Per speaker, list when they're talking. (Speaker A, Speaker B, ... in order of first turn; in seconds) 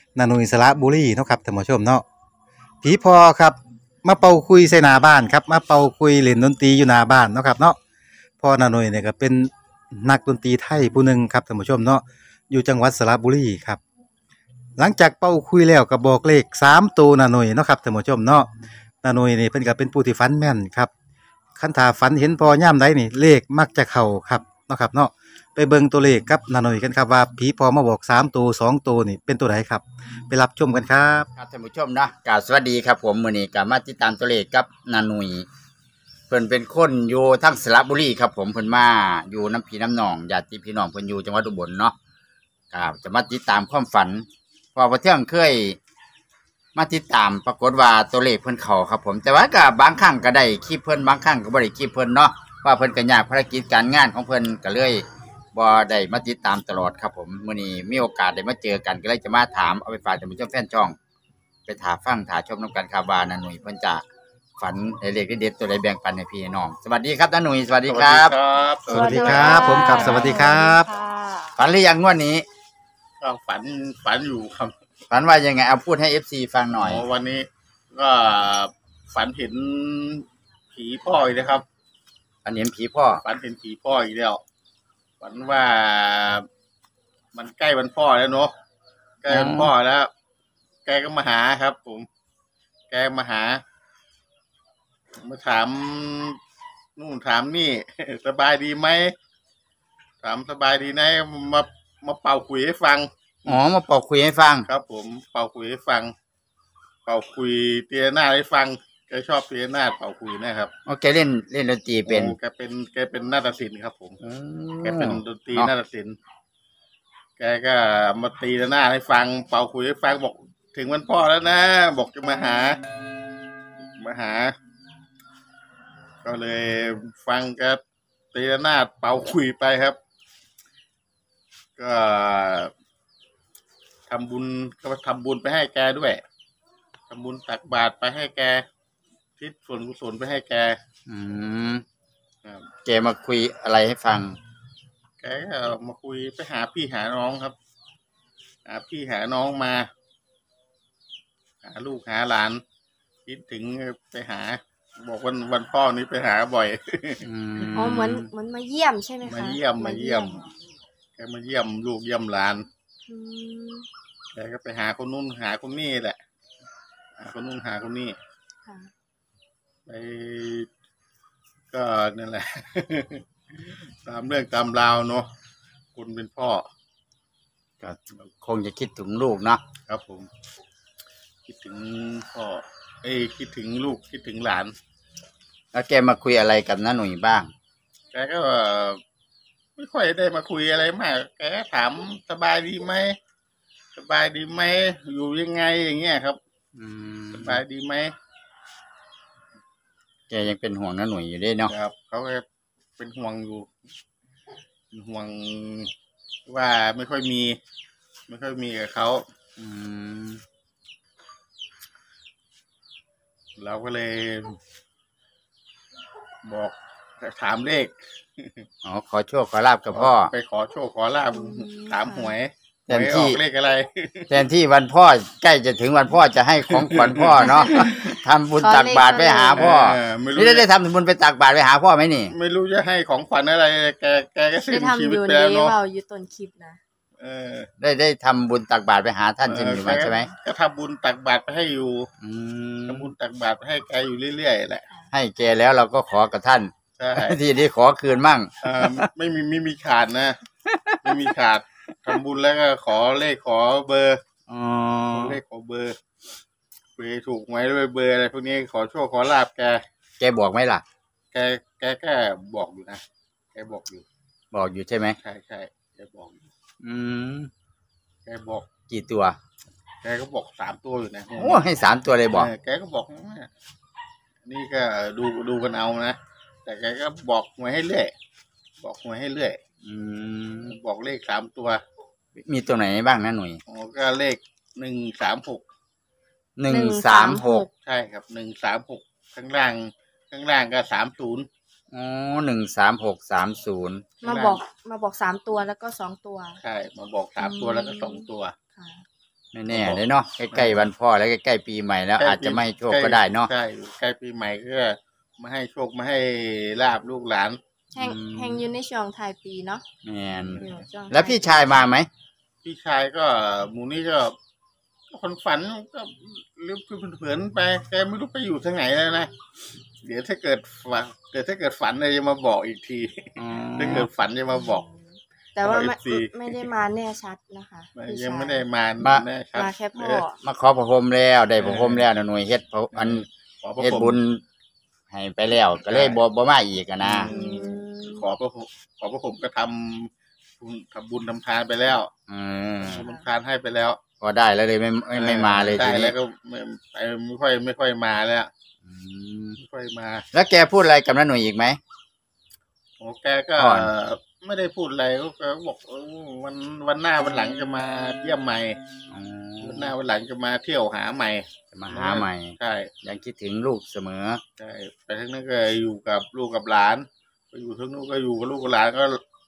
Speaker A: 0.1-2.0, 2.8-7.8, 8.4-13.8, 14.8-18.5, 19.0-20.9, 21.6-31.3, 68.9-70.9
Speaker B: 31.4-35.5, 36.3-41.9, 42.7-45.8, 46.8-55.0, 55.5-61.0, 61.7-64.0, 64.6-68.3, 69.1-70.4, 71.6-72.4, 75.1-77.0, 82.4-83.2, 89.3-89.7, 103.5-104.7, 110.9-112.3, 114.2-115.7, 141.1-141.8, 142.8-144.4, 157.2-158.3, 177.8-179.6, 185.7-187.5, 196.8-197.6, 200.3-201.7, 209.6-210.4, 218.8-220.3, 222.9-223.4, 224.3-232.3, 237.8-240.3, 242.2-243.1, 245.1-249.1, 250.7-250.9, 254.5-255.4, 260.2-260.8, 264.5-265.1, 266.8-267.5, 268.9-269.4, 271.4-272.5, 279.8-280.8, 282.4-283.6, 286.6-287.6, 291.9-294.2, 299.5-303.5, 308.0-308.6, 310.0-312.1, 323.4-324.1, 330.3-333.2, 333.8-334.4, 335.1-337.3, 342.3-343.1, 344.2-346.1, 348.8-349.6, 350.3-351.8, 353.6-353.9, 359.1-359.9, 361.7-364.4
Speaker C: 67.8-70.4, 73.2-74.7, 76.8-81.6, 83.2-84.4, 85.2-86.5, 87.3-88.5, 89.2-90.1, 90.8-92.1, 92.9-93.6, 95.2-96.4, 97.0-99.1, 100.2-103.6, 104.7-106.1, 107.0-110.7, 112.0-114.2, 114.8-116.2, 117.4-122.8, 124.0-124.5, 126.2-127.8, 128.3-130.0, 131.8-132.7, 134.1-136.2, 137.1-138.6, 139.4-140.8, 142.4-142.7, 145.2-147.5, 148.7-149.8, 151.6-152.6, 153.3-157.9, 159.2-160.4, 161.2-162.7, 164.3-166.2, 167.2-168.2, 169.9-170.7, 171.7-175.3, 175.9-176.6, 179.9-180.3, 181.4-184.7, 188.1-189.0, 189.8-193.1, 193.9-196.4, 197.3-198.1, 201.7-202.4, 203.0-203.7, 204.9-205.9, 206.5-207.6, 208.3-209.2, 213.6-214.6, 216.4-218.6, 219.9-224.4, 226.8-228.1, 229.5-230.7, 232.3-235.8, 237.2-237.7, 239.4-242.1, 242.9-244.9, 247.0-247.4, 248.6-250.4, 251.0-254.2, 255.1-256.0, 257.0-259.8, 261.3-263.0, 263.5-264.0, 265.2-266.4, 268.3-268.7, 270.0-271.7, 272.3-273.5, 274.5-278.1, 278.8-279.6, 280.6-281.8, 283.7-285.6, 287.8-291.5, 294.2-294.6, 296.6-298.6, 299.7-300.9, 302.2-307.6, 312.6-314.3, 315.1-319.3, 320.0-324.8, 325.6-326.6, 327.9-330.2, 331.6-332.1, 332.9-334.2, 335.8-336.2, 337.0-342.1, 342.8-344.0, 345.1-348.5, 349.6-350.2, 353.0-358.8, 359.6-362.9, 364.6-369.2
Speaker D: 68.9-71.5, 157.8-160.4, 163.1-163.9, 168.7-168.9, 221.3-222.3, 228.6-229.7, 234.7-236.8, 286.7-287.7, 294.2-296.6, 297.4-299.0, 307.9-309.8, 310.6-311.7, 323.9-328.6, 329.5-330.4, 337.2-338.2, 343.0-343.3